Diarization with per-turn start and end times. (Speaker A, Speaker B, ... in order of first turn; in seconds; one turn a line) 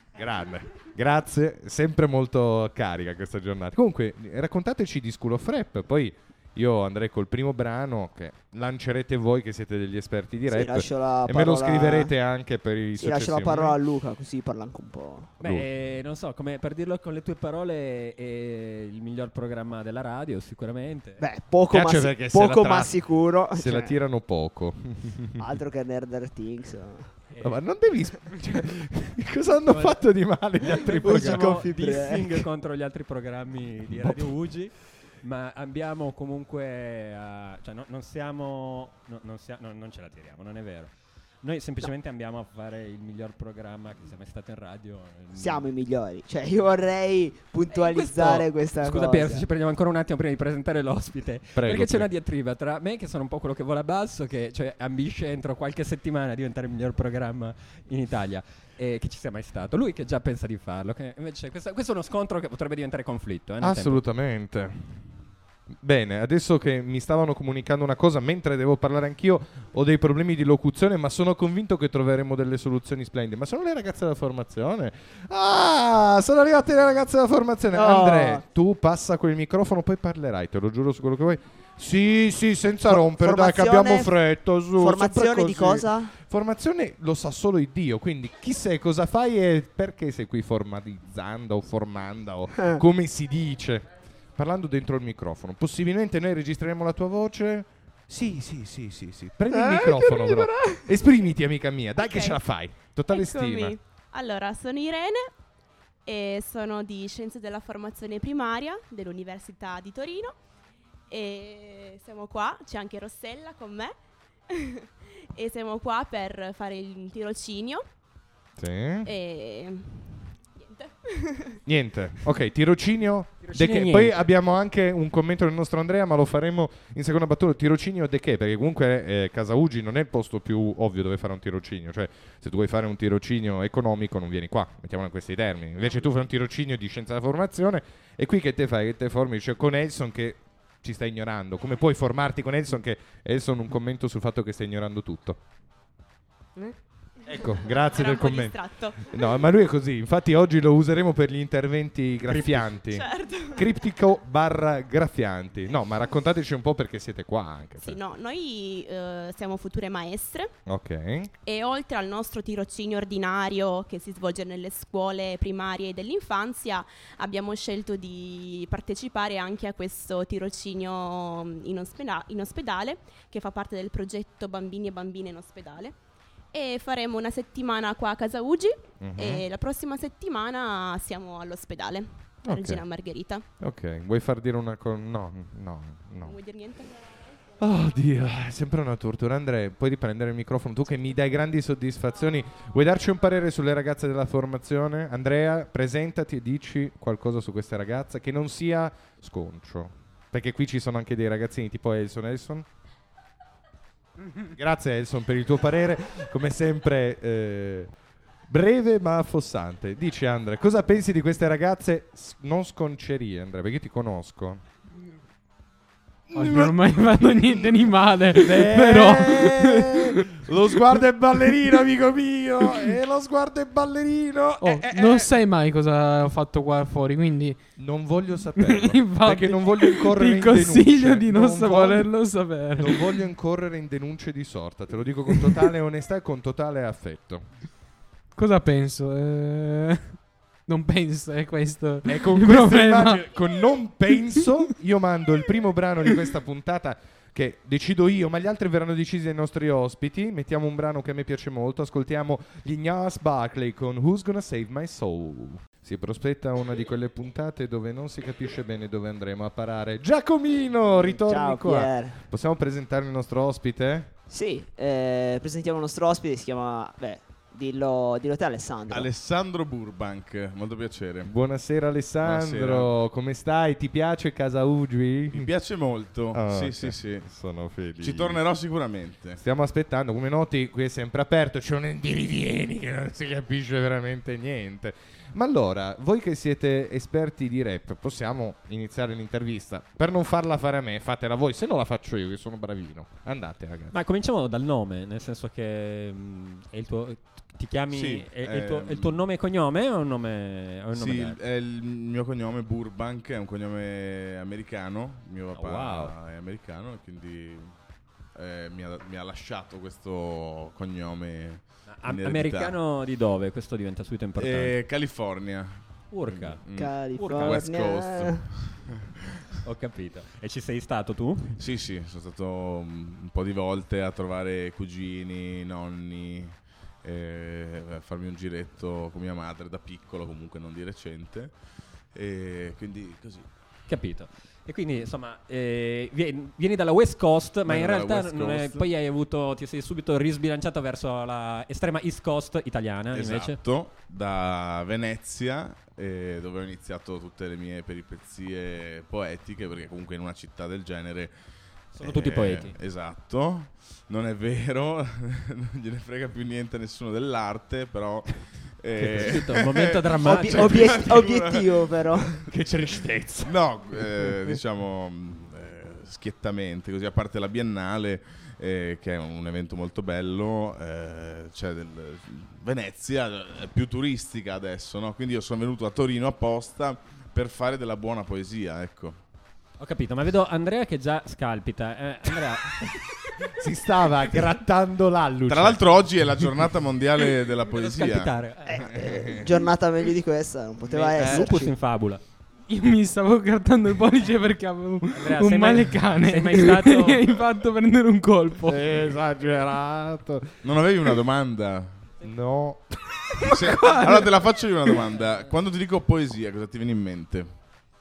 Speaker A: 0.1-13.8
Speaker B: 10.5-12.1
Speaker B: 13.0-15.3
Speaker C: 15.4-21.2
Speaker B: 21.2-23.9
Speaker A: 21.7-22.9
Speaker A: 23.5-25.5
Speaker B: 25.4-27.1
Speaker A: 27.4-31.6
Speaker C: 29.7-30.0
Speaker C: 30.7-45.6
Speaker B: 30.8-32.4
Speaker A: 33.9-34.3
Speaker B: 45.3-49.5
Speaker C: 47.7-64.0
Speaker A: 51.5-52.1
Speaker A: 63.6-65.0
Speaker A: 65.8-103.7
Speaker B: 77.7-78.4
Speaker B: 82.9-84.1
Speaker B: 84.8-86.1
Speaker B: 92.5-92.8
Speaker B: 99.5-100.8
Speaker D: 102.0-102.4
Speaker D: 103.1-105.3
Speaker D: 106.0-110.3
Speaker D: 111.1-113.9
Speaker D: 114.5-117.8
Speaker A: 118.6-119.1
Speaker D: 119.0-121.6
Speaker A: 121.7-145.4
Speaker C: 123.4-124.3
Speaker A: 147.2-158.0
Speaker D: 147.9-149.4
Speaker C: 152.3-152.8
Speaker D: 152.9-153.7
Speaker D: 157.8-160.5
Speaker A: 160.7-161.3
Speaker D: 161.4-175.9
Speaker D: 176.5-183.4
Speaker A: 179.0-179.4
Speaker A: 182.5-182.8
Speaker A: 183.6-186.3
Speaker D: 186.2-187.0
Speaker A: 187.6-202.7
Speaker A: 204.5-207.9
Speaker A: 208.5-214.6
Speaker A: 216.3-225.3
Speaker E: 216.3-220.4
Speaker E: 224.6-227.6
Speaker A: 227.8-232.1
Speaker E: 228.6-233.1
Speaker A: 232.8-237.4
Speaker E: 238.3-240.1
Speaker E: 240.7-243.2
Speaker A: 242.1-264.1
Speaker B: 261.0-262.1
Speaker B: 264.3-269.1
Speaker F: 268.9-271.3
Speaker A: 271.2-275.5
Speaker F: 272.2-272.9
Speaker F: 275.3-277.3
Speaker A: 276.3-278.4
Speaker F: 278.0-279.4
Speaker A: 279.4-293.9
Speaker C: 293.9-301.4
Speaker F: 297.9-299.2
Speaker F: 300.9-307.7
Speaker C: 305.5-306.1
Speaker F: 308.3-312.7
Speaker C: 311.9-314.7
Speaker F: 314.4-319.4
Speaker C: 316.1-316.6
Speaker B: 316.7-318.5
Speaker C: 317.1-317.6
Speaker C: 319.6-321.6
Speaker F: 321.6-331.5
Speaker F: 332.1-333.5
Speaker C: 333.9-343.6
Speaker F: 337.6-338.9
Speaker F: 343.1-351.3
Speaker C: 351.9-352.8
Speaker F: 352.0-362.1
Speaker C: 359.0-361.2
Speaker B: 360.2-362.4
Speaker A: 362.5-364.6
Speaker F: 363.4-379.2
Speaker C: 379.8-383.0
Speaker A: 383.5-386.6
Speaker F: 385.5-388.3
Speaker C: 387.6-389.0
Speaker B: 388.6-391.7
Speaker C: 390.9-392.2
Speaker E: 392.7-398.8
Speaker C: 395.1-397.2
Speaker A: 398.7-400.6
Speaker F: 400.6-401.9
Speaker A: 402.2-403.6
Speaker F: 403.4-407.5
Speaker E: 403.4-404.3